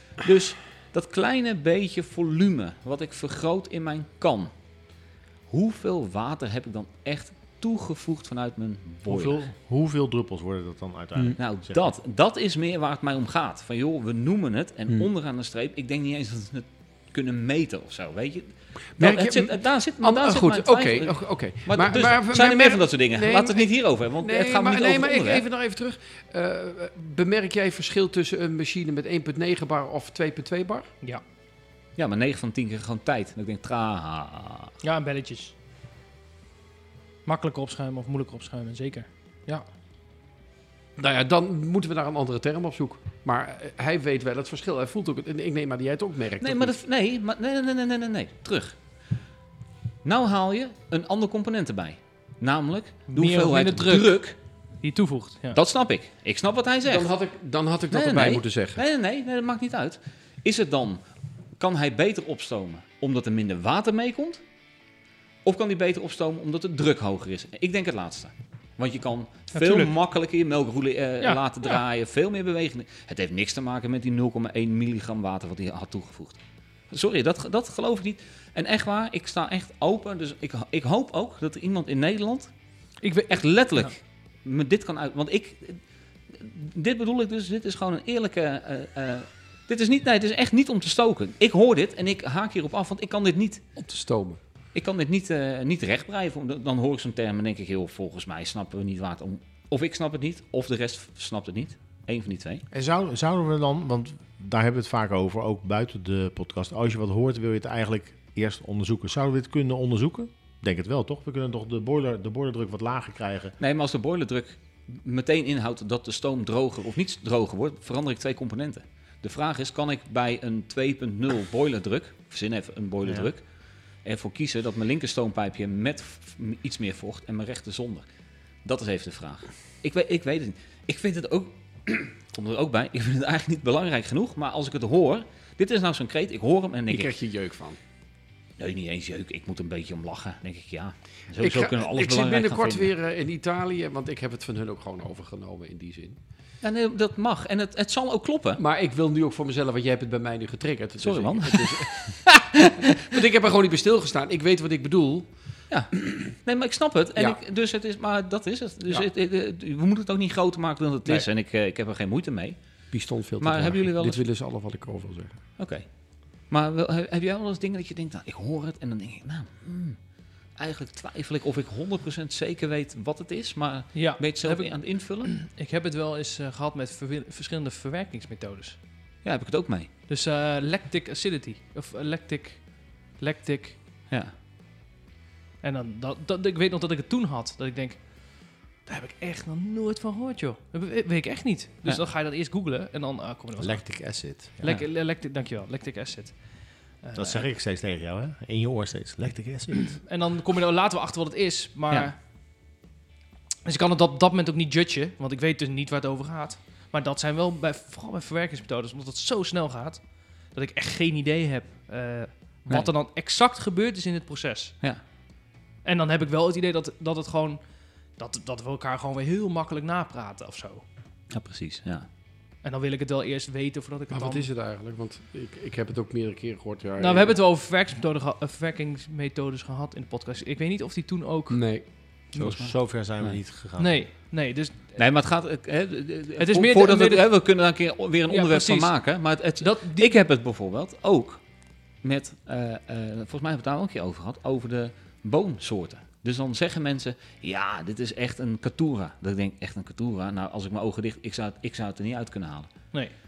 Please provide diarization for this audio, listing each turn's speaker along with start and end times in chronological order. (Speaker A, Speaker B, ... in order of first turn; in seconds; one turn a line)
Speaker A: 0.2-4.5
Speaker A: 5.5-9.4
Speaker B: 9.1-11.9
Speaker A: 11.4-25.4
Speaker C: 19.0-30.9
Speaker A: 32.0-34.7
Speaker D: 34.8-35.5
Speaker D: 37.2-39.6
Speaker C: 41.0-46.7
Speaker A: 46.4-48.8
Speaker A: 50.0-54.4
Speaker D: 53.1-54.2
Speaker D: 54.8-55.6
Speaker A: 55.5-57.1
Speaker C: 56.9-58.8
Speaker A: 57.9-61.0
Speaker A: 61.6-64.4
Speaker A: 65.4-82.5
Speaker D: 69.5-69.9
Speaker D: 83.0-83.9
Speaker A: 83.3-93.6
Speaker C: 93.8-94.4
Speaker A: 94.7-102.6
Speaker B: 102.7-113.5
Speaker A: 113.6-123.4
Speaker A: 124.0-128.1
Speaker A: 128.6-137.1
Speaker C: 136.9-137.8
Speaker A: 138.6-142.9
Speaker C: 141.4-146.2
Speaker A: 146.6-148.6
Speaker C: 148.6-152.4
Speaker A: 151.0-152.9
Speaker C: 153.1-155.3
Speaker A: 155.7-162.6
Speaker C: 162.9-165.3
Speaker A: 163.4-164.2
Speaker A: 165.6-165.8
Speaker A: 166.5-170.0
Speaker A: 170.6-175.3
Speaker D: 173.9-178.8
Speaker A: 179.2-179.9
Speaker D: 180.1-183.8
Speaker D: 185.6-188.1
Speaker D: 188.8-194.0
Speaker B: 193.6-194.6
Speaker D: 194.6-196.4
Speaker D: 197.0-197.4
Speaker B: 197.1-200.0
Speaker D: 200.0-202.1
Speaker D: 203.6-214.8
Speaker D: 215.8-217.6
Speaker D: 218.2-220.8
Speaker A: 221.3-222.1
Speaker D: 222.6-224.4
Speaker C: 224.1-227.3
Speaker D: 227.0-231.7
Speaker C: 231.5-231.8
Speaker B: 232.3-234.0
Speaker A: 232.3-233.4
Speaker D: 233.8-235.0
Speaker A: 234.9-241.4
Speaker D: 236.4-237.3
Speaker D: 238.3-238.9
Speaker D: 239.6-240.2
Speaker A: 242.0-252.7